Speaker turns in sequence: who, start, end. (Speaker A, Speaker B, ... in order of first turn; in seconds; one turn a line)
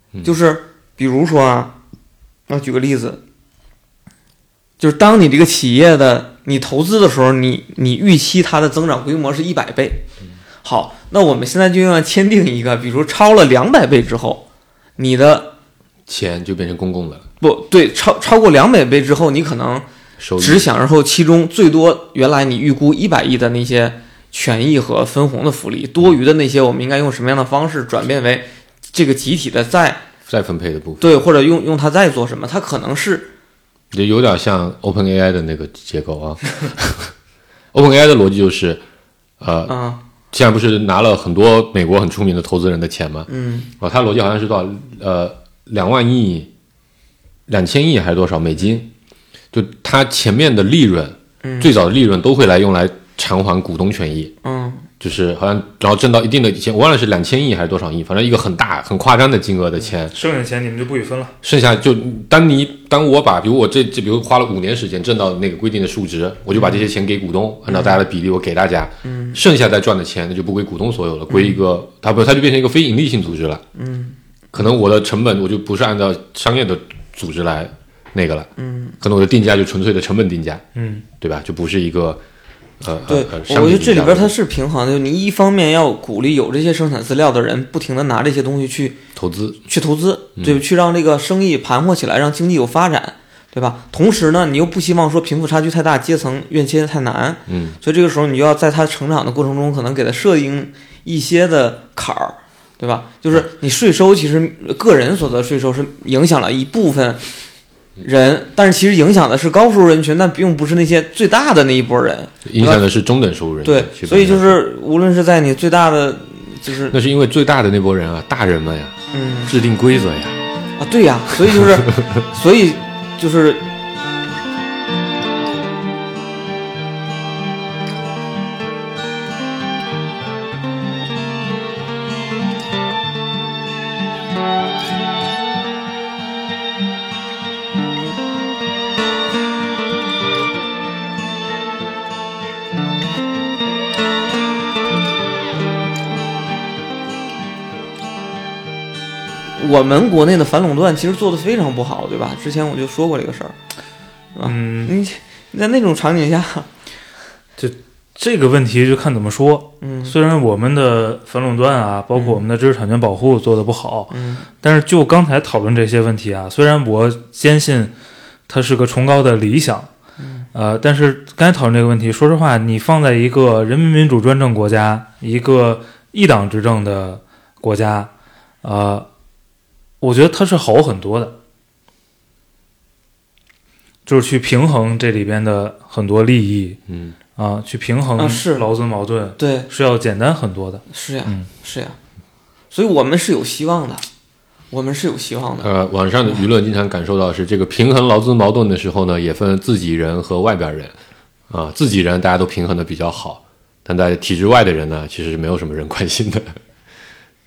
Speaker A: 0.2-1.8
Speaker A: 2.5-3.2
Speaker A: 4.8-10.0
Speaker A: 10.6-14.4
Speaker A: 15.0-15.5
Speaker B: 16.1-17.3
Speaker A: 17.4-19.9
Speaker B: 20.2-20.7
Speaker A: 20.4-30.0
Speaker B: 30.3-31.1
Speaker A: 31.0-33.3
Speaker B: 33.9-37.1
Speaker B: 37.7-38.8
Speaker B: 39.4-39.8
Speaker A: 39.7-40.0
Speaker B: 40.3-46.5
Speaker A: 43.3-43.7
Speaker B: 47.5-48.9
Speaker B: 49.5-54.3
Speaker A: 51.4-51.7
Speaker A: 54.4-54.9
Speaker B: 55.0-60.1
Speaker C: 60.1-61.4
Speaker B: 61.4-73.6
Speaker A: 66.5-66.8
Speaker A: 67.7-68.0
Speaker A: 69.0-69.4
Speaker A: 71.3-71.6
Speaker A: 73.8-74.2
Speaker B: 74.5-78.5
Speaker A: 78.6-79.0
Speaker B: 79.0-80.6
Speaker C: 80.8-81.0
Speaker B: 81.2-82.2
Speaker B: 82.8-84.3
Speaker A: 83.1-89.0
Speaker B: 89.2-89.6
Speaker A: 89.7-107.2
Speaker B: 97.5-97.8
Speaker A: 108.0-112.8
Speaker B: 112.5-114.6
Speaker A: 113.6-117.0
Speaker B: 116.9-120.4
Speaker A: 119.1-119.5
Speaker A: 120.8-123.7
Speaker B: 121.5-122.1
Speaker A: 149.6-153.6
Speaker A: 154.3-156.7
Speaker C: 154.4-154.9
Speaker C: 157.6-167.9
Speaker A: 159.8-160.2
Speaker A: 162.1-162.4
Speaker A: 164.1-164.5
Speaker C: 168.5-169.9
Speaker A: 170.2-170.5
Speaker C: 170.5-178.1
Speaker C: 178.6-179.1
Speaker C: 180.0-181.4
Speaker C: 184.1-186.8
Speaker B: 186.9-187.2
Speaker C: 187.4-191.5
Speaker A: 188.2-188.7
Speaker A: 189.4-189.7
Speaker A: 190.9-192.0
Speaker A: 192.7-194.1
Speaker A: 194.7-195.7
Speaker B: 195.6-200.9
Speaker B: 201.5-206.6